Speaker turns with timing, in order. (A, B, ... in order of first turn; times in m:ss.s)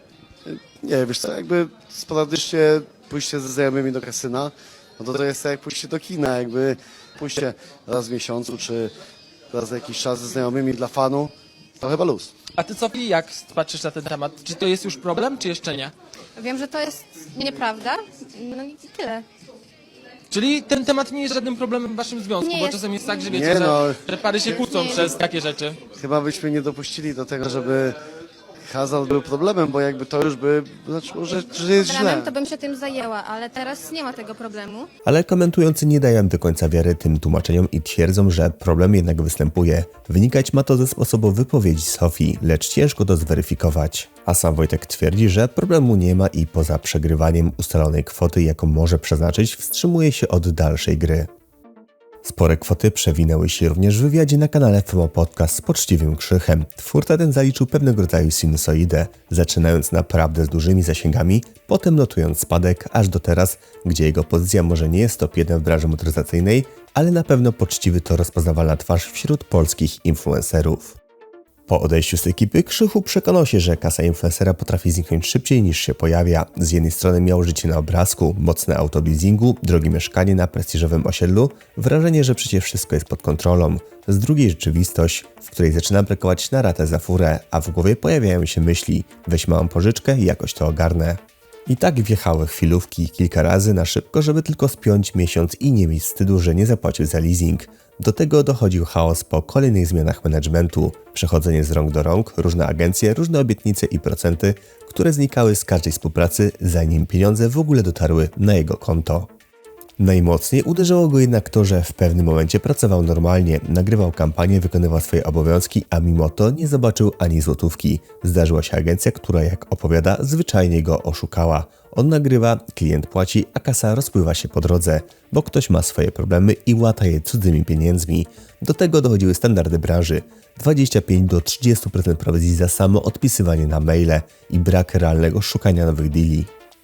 0:00.5-0:08.9 A
0:09.5-0:12.3 A
0:12.6-0:15.9 B
0:16.4-0:19.3 C
0:20.3-0:25.8 B
0:22.4-0:23.3 C
0:23.3-0:24.0 A
0:24.6-0:25.1 C
0:26.0-0:28.0 A
0:28.7-0:32.4 A
0:31.9-0:34.9 C
0:35.0-0:51.3 D
0:52.2-1:11.0 D
1:11.7-1:49.3 D
1:50.0-2:16.5 D